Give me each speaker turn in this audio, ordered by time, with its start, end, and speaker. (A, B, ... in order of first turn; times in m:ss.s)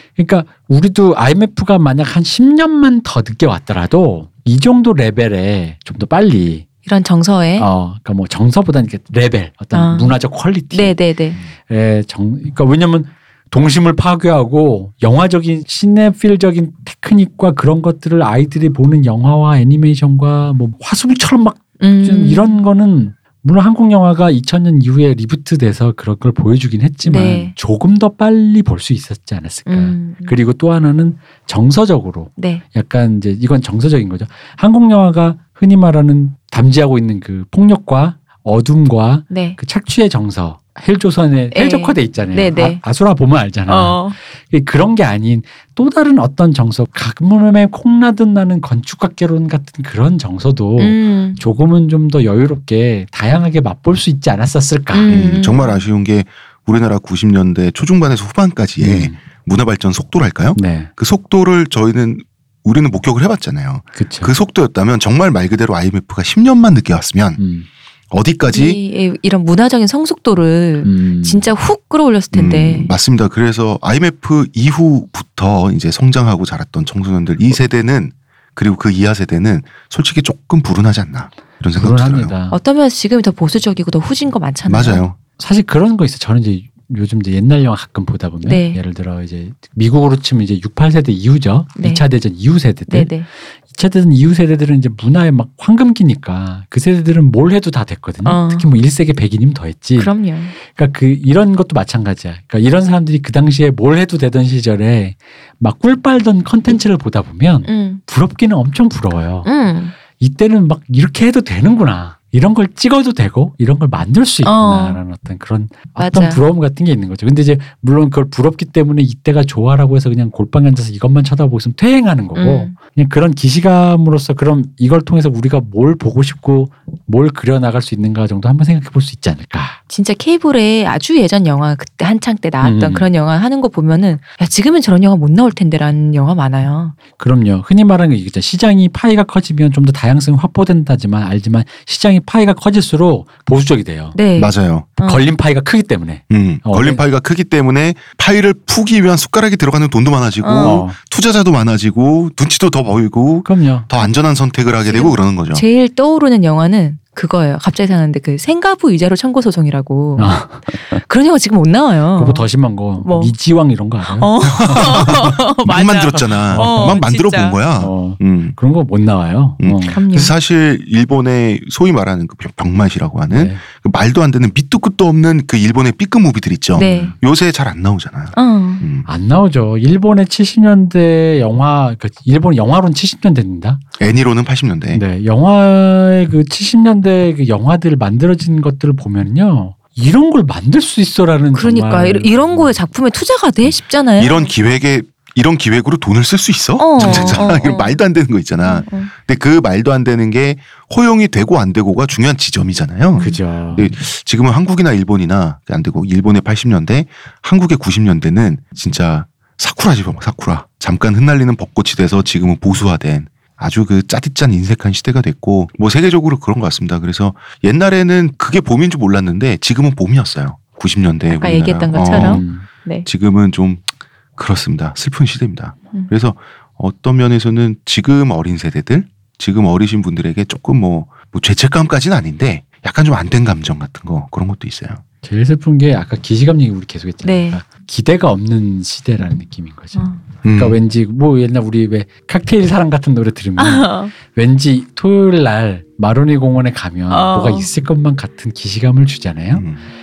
0:00.2-0:06.6 A
0:06.8-0:07.7 B
0:07.6-0:11.0 A
0:09.7-0:10.1 B
0:10.7-0:11.4 B
0:11.7-0:55.3 A
0:21.8-0:22.6 B
0:27.0-0:27.5 B
0:29.7-0:30.4 B
0:32.4-0:32.6 B
0:39.3-0:39.6 B
0:41.5-0:42.8 B
0:43.7-0:44.2 B
0:50.8-0:51.4 B
0:54.9-0:55.8 B
0:55.1-1:07.4 C
0:58.8-0:59.2 A
1:00.5-1:00.9 A
1:03.9-1:04.3 A
1:07.4-1:07.7 A
1:08.1-1:08.8 C
1:08.5-1:12.9 B
1:10.8-1:11.5 A
1:12.3-1:22.3 C
1:21.7-1:22.6 A
1:22.5-1:25.0 B
1:24.7-1:25.2 C
1:25.4-1:33.1 A
1:28.4-1:28.8 B
1:31.8-1:32.0 B
1:32.9-1:33.2 B
1:33.6-1:40.1 A
1:38.2-1:38.7 B
1:40.0-1:40.5 B
1:40.7-1:49.5 A
1:47.6-1:48.0 B
1:49.4-1:50.0 B
1:50.2-2:09.8 A
1:54.4-1:55.0 B
1:56.0-1:56.4 B
2:02.3-2:02.7 B
2:09.9-2:16.9 B
2:12.6-2:13.1 A
2:17.2-2:24.2 A
2:24.1-2:25.2 B
2:24.4-2:24.9 C
2:25.0-2:27.0 A
2:26.3-2:35.6 C
2:30.4-2:30.8 B
2:30.6-2:31.0 A
2:33.4-2:33.9 A
2:34.9-2:43.3 B
2:40.2-2:41.0 A
2:42.2-2:45.2 A
2:44.1-2:47.6 B
2:44.4-2:48.6 C
2:46.5-2:47.0 A
2:47.8-2:50.0 A
2:49.6-2:59.1 C
2:49.9-2:50.3 B
2:53.3-2:53.6 A
2:56.8-2:57.1 A
2:56.8-2:57.1 B
2:58.3-2:58.8 B
2:59.0-3:03.8 A
3:04.0-3:05.0 C
3:04.9-3:12.7 A
3:11.5-3:14.5 B
3:14.2-3:42.5 C
3:16.8-3:18.0 B
3:17.0-3:17.4 A
3:18.6-3:19.1 B
3:23.2-3:23.9 A
3:41.3-3:43.1 B
3:42.0-3:42.7 A
3:43.0-3:55.0 C
3:55.2-4:09.7 A
3:57.2-3:57.6 B
3:59.9-4:00.2 B
4:00.4-4:00.8 C
4:03.6-4:04.1 B
4:07.1-4:07.7 B
4:09.5-4:09.8 C